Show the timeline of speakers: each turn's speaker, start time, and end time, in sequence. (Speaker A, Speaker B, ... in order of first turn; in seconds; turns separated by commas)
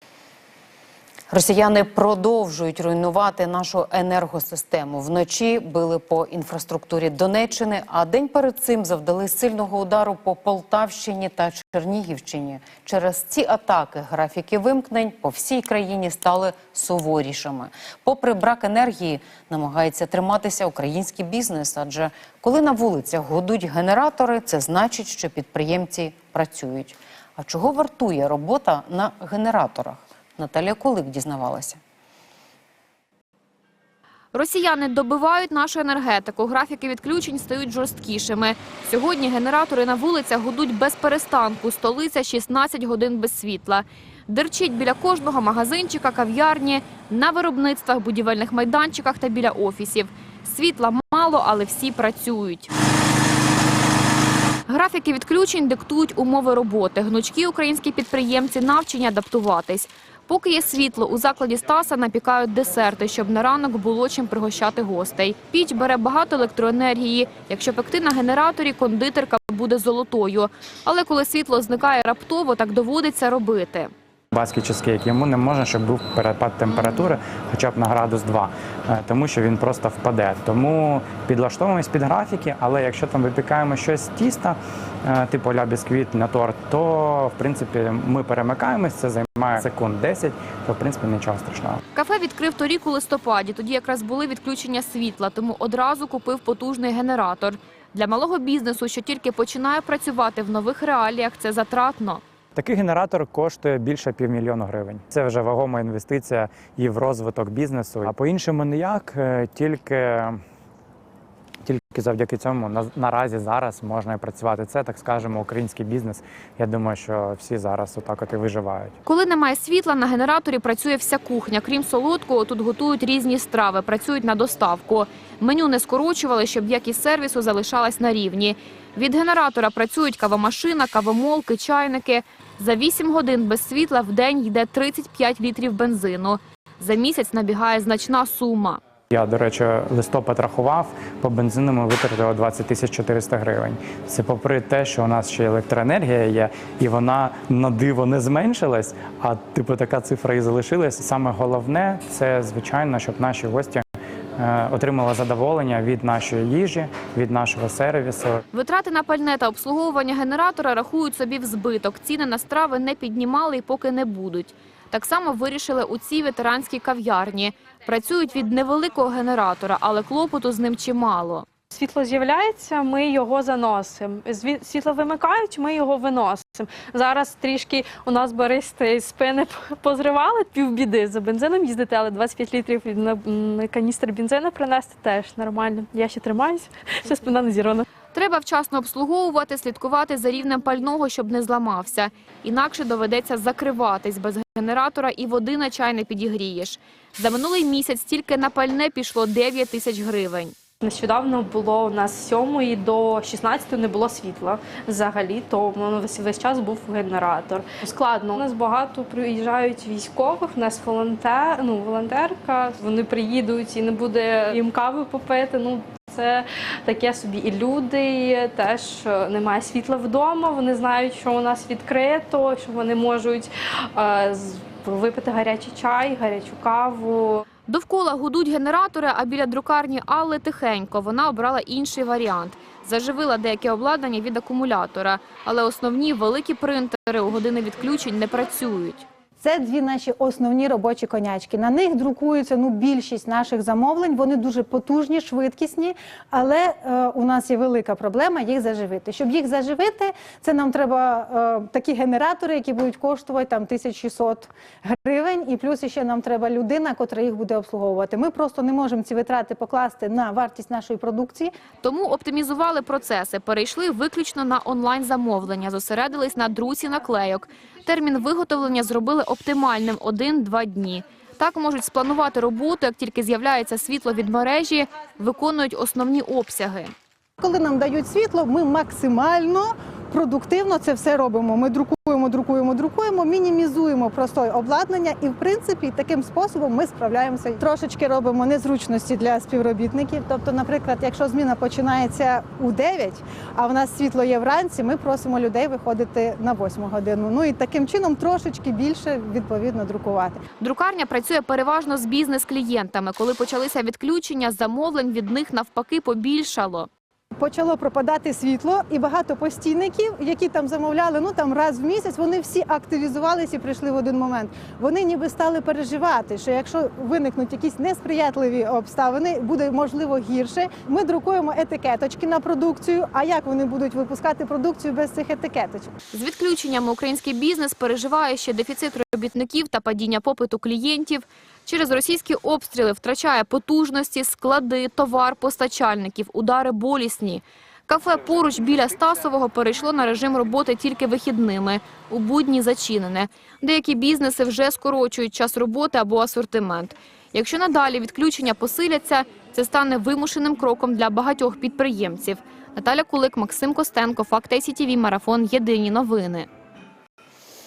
Speaker A: 1.3-31.8, Speaker B: 34.3-52.7, Speaker B: 54.7-73.9, Speaker C: 74.3-91.8, Speaker B: 76.7-77.1, Speaker B: 91.9-102.2, Speaker C: 102.5-110.4, Speaker C: 111.6-119.0, Speaker B: 119.0-138.8, Speaker C: 139.1-153.8, Speaker C: 154.4-158.4, Speaker B: 158.5-171.4, Speaker D: 171.7-187.8, Speaker B: 188.1-200.5, Speaker D: 200.8-227.4, Speaker B: 227.7-239.1, Speaker E: 239.4-261.5, Speaker B: 261.8-276.9, Speaker E: 277.4-300.3, Speaker B: 300.6-306.9, Speaker E: 307.4-325.9, Speaker B: 326.1-356.5